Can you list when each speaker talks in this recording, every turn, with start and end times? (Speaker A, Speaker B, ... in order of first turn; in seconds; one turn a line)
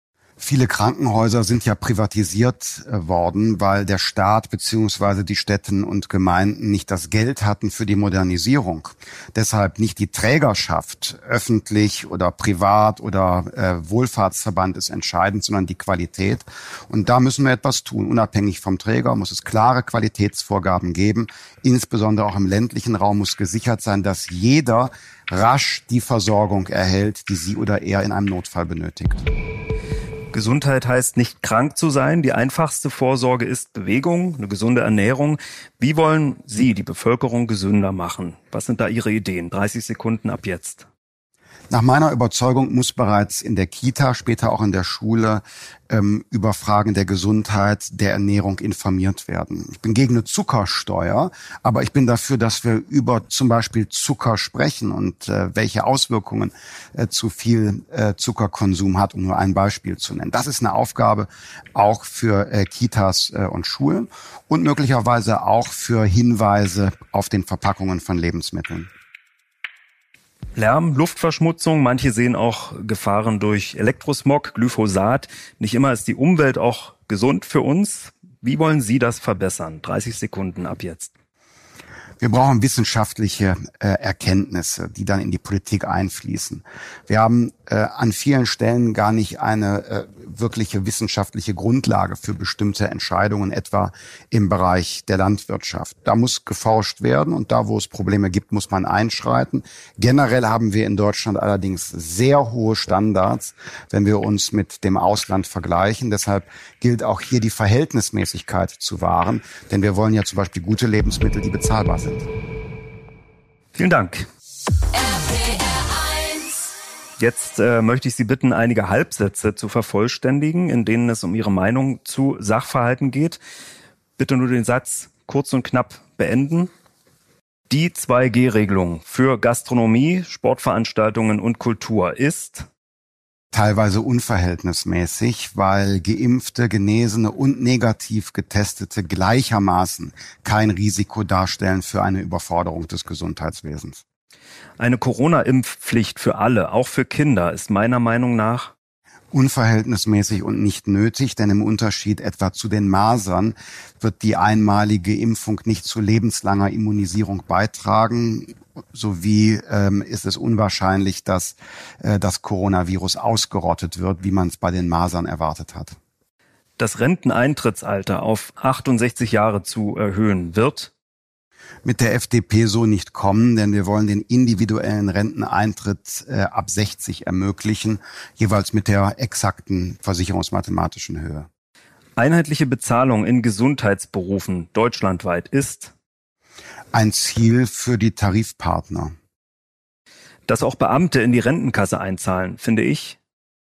Speaker A: 0.4-29.2
Speaker B: 30.3-40.9
Speaker A: 41.7-68.9
Speaker B: 70.5-81.1
Speaker A: 82.2-112.3
Speaker B: 113.7-114.3
Speaker B: 117.2-123.4
Speaker B: 124.2-126.7
Speaker B: 127.7-132.7
Speaker A: 133.5-144.0
Speaker B: 144.8-148.7
Speaker A: 149.3-165.9
Speaker B: 166.8-170.9
Speaker A: 171.8-181.5
Speaker B: 182.2-185.9
Speaker A: 186.9-189.1
Speaker B: 190.5-193.2